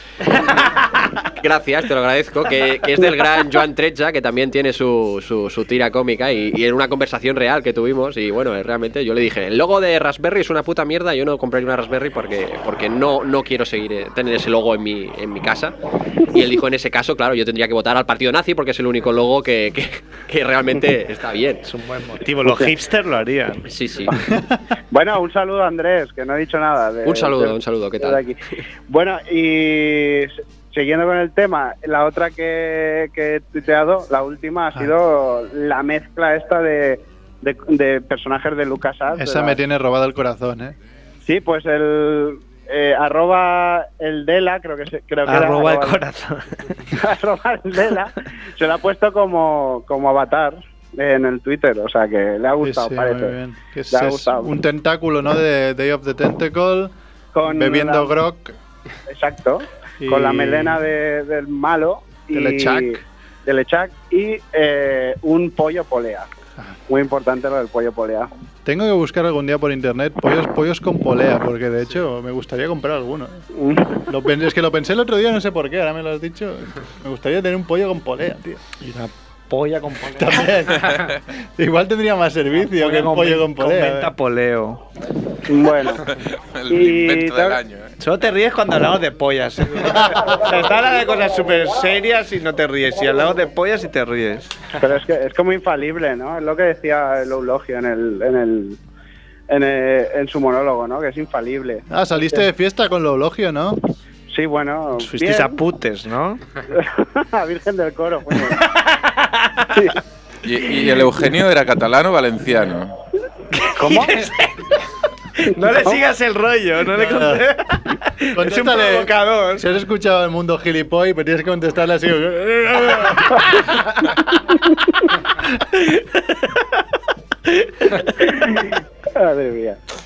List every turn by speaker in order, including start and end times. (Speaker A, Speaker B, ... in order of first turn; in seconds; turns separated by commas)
Speaker A: 0.3-21.6, Speaker B: 0.3-1.1, Speaker B: 21.6-23.7, Speaker C: 22.4-22.7, Speaker A: 23.7-24.1, Speaker D: 24.1-24.6, Speaker C: 24.9-39.6, Speaker A: 27.0-28.2, Speaker D: 39.1-40.8, Speaker C: 41.2-46.0, Speaker B: 45.2-46.9, Speaker C: 46.9-53.4, Speaker D: 52.6-56.9, Speaker C: 53.9-54.5, Speaker C: 57.3-58.1, Speaker D: 57.4-58.5, Speaker C: 59.1-66.3, Speaker D: 60.0-60.8, Speaker D: 62.3-63.0, Speaker C: 66.9-68.3, Speaker D: 68.6-73.5, Speaker C: 73.5-74.1, Speaker D: 74.0-78.6, Speaker B: 78.8-80.6, Speaker D: 80.2-84.1, Speaker B: 82.6-84.8, Speaker C: 85.5-86.1, Speaker E: 85.9-87.9, Speaker C: 86.7-87.6, Speaker B: 88.0-94.6, Speaker C: 94.8-98.8, Speaker C: 99.5-102.4, Speaker D: 101.9-103.8, Speaker C: 104.3-105.6, Speaker B: 105.0-106.4, Speaker C: 106.7-108.6, Speaker B: 108.4-110.0, Speaker E: 110.4-112.9, Speaker B: 113.5-119.7, Speaker C: 113.8-114.3, Speaker D: 116.9-117.5, Speaker D: 118.3-123.5, Speaker B: 125.7-126.8, Speaker B: 127.5-128.1, Speaker C: 128.2-129.8